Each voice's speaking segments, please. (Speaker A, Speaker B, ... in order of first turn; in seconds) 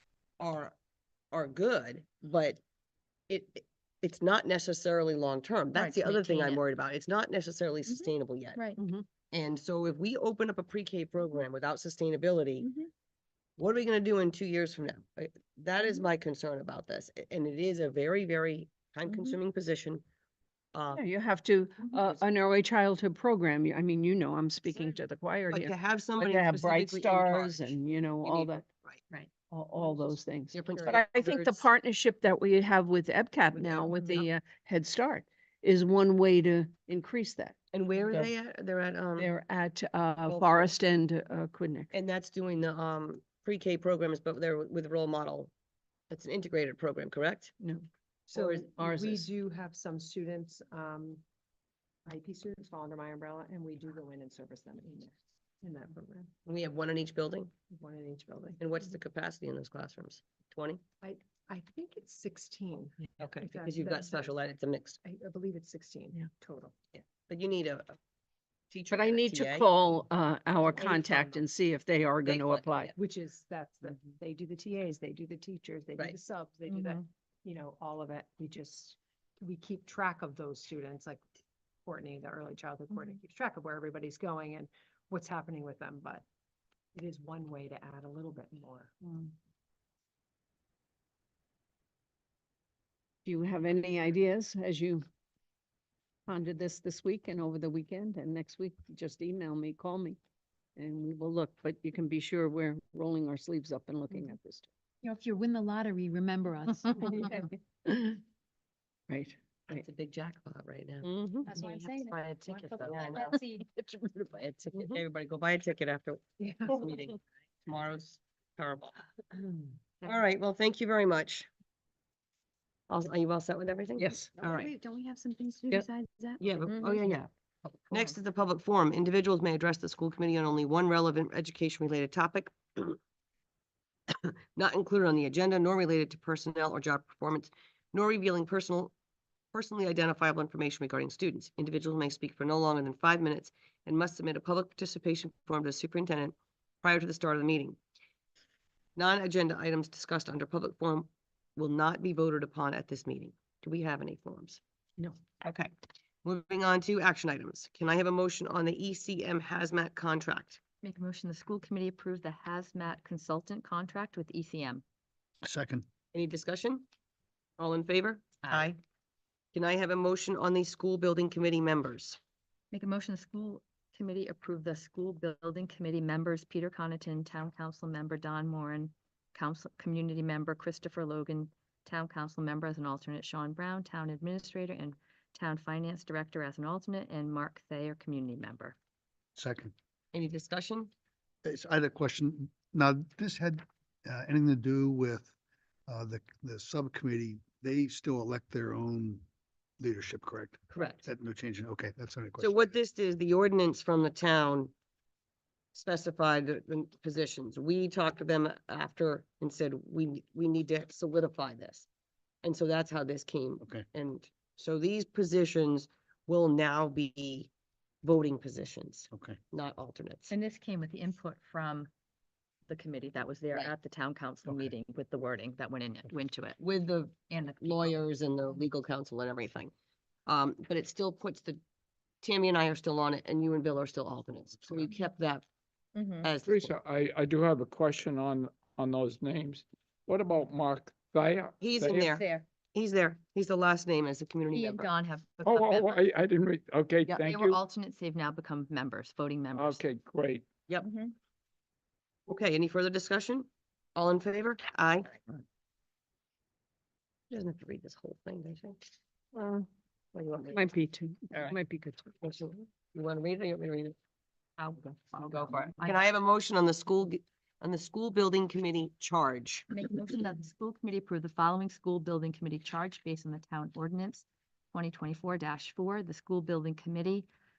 Speaker A: 0.4-0.7, 1.3-2.6, 3.3-8.6, 9.3-12.7, 13.6-20.0, 20.7-21.0, 25.5-29.0, 30.5-31.7, 33.6-34.2, 37.7-39.3, 40.2-40.7, 41.9-45.5, 46.1-47.5, 48.3-48.6, 56.4-57.5, 58.6-60.8, 63.2-65.0, 66.9-68.0, 68.7-69.7, 72.2-72.8, 109.7-113.4, 114.7-119.0, 120.0-121.5, 122.9-124.7, 126.4-127.3, 127.9-133.0, 134.1-138.9, 139.5-147.8, 148.9-154.6, 155.4-155.7, 156.2-160.6, 166.1-166.8, 167.6-168.8, 169.5-172.2, 190.1-190.9, 200.7-201.1, 202.4-204.7, 205.7-211.9, 212.4-217.5, 218.0-220.3, 226.6-229.7, 230.2-231.6, 232.2-235.4, 236.2-236.7, 241.6-244.9, 252.3-255.1, 257.3-258.8, 260.1-260.7, 262.2-263.9, 265.1-269.7
Speaker B: 5.7-6.6, 7.8-8.8, 12.6-12.9, 19.1-19.4, 112.0-112.6, 113.1-114.6, 126.7-127.1, 160.8-164.8, 168.4-168.7, 172.7-188.8, 220.3-221.9, 222.7-226.6, 227.3-227.9, 235.9-236.3, 242.0-242.4, 244.5-246.0, 247.1-249.8, 250.8-251.1, 264.6-266.0, 269.7-277.3
Speaker C: 8.8-9.0, 20.9-28.6, 29.5-37.5, 39.2-41.9, 47.6-47.8, 48.8-49.2, 68.9-72.9, 93.2-95.0, 96.3-100.2, 100.8-104.7, 107.8-108.2, 109.1-109.8, 124.0-124.3, 259.3-259.7, 260.5-262.1
Speaker D: 48.3-51.2, 52.0-56.3, 57.7-58.6, 61.0-64.4, 65.0-66.7, 70.6-71.5, 73.0-81.2, 81.8-86.2, 86.9-89.1, 116.4-116.9
Speaker E: 105.0-107.5, 111.5-113.7, 124.4-126.5
Speaker F: 165.4-165.8, 189.3-189.7, 191.4-195.3, 195.9-199.2, 199.8-202.7, 219.1-219.4, 224.5-224.7
Speaker G: 236.4-242.2, 245.4-247.6, 249.5-250.5